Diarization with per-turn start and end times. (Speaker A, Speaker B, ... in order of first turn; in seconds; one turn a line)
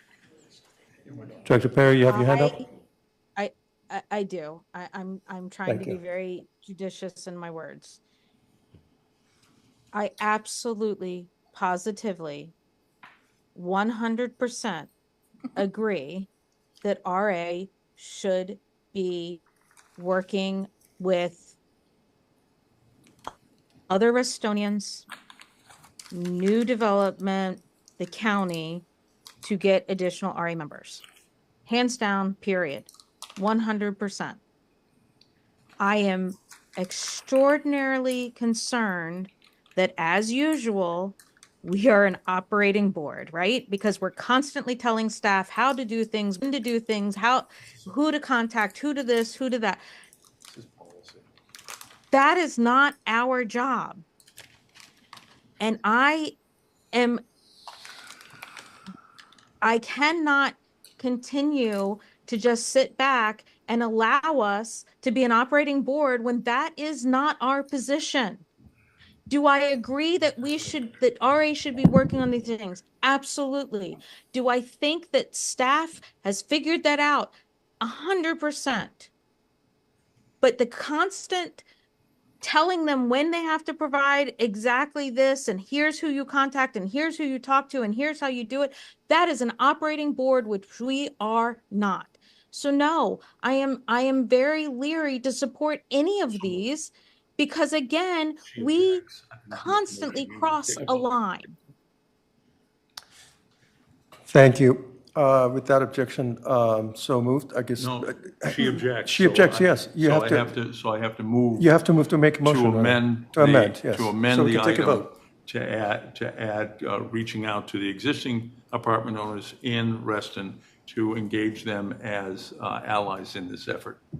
Speaker A: 1.3-2.6
Speaker B: 2.1-2.6
Speaker B: 3.4-8.0
Speaker A: 5.7-6.0
Speaker B: 9.9-12.5
Speaker B: 13.5-14.9
Speaker B: 15.6-16.3
Speaker B: 16.8-19.4
Speaker B: 20.0-21.6
Speaker B: 23.9-25.1
Speaker B: 26.1-28.9
Speaker B: 29.4-31.0
Speaker B: 31.7-34.4
Speaker B: 35.8-49.8
Speaker C: 50.5-51.2
Speaker B: 52.1-54.0
Speaker B: 55.6-56.4
Speaker B: 56.9-57.2
Speaker B: 59.6-68.4
Speaker B: 69.3-79.1
Speaker B: 80.4-81.7
Speaker B: 82.4-101.5
Speaker C: 98.5-101.0
Speaker A: 104.3-110.5
Speaker C: 107.8-111.7
Speaker A: 111.6-115.1
Speaker C: 112.4-124.0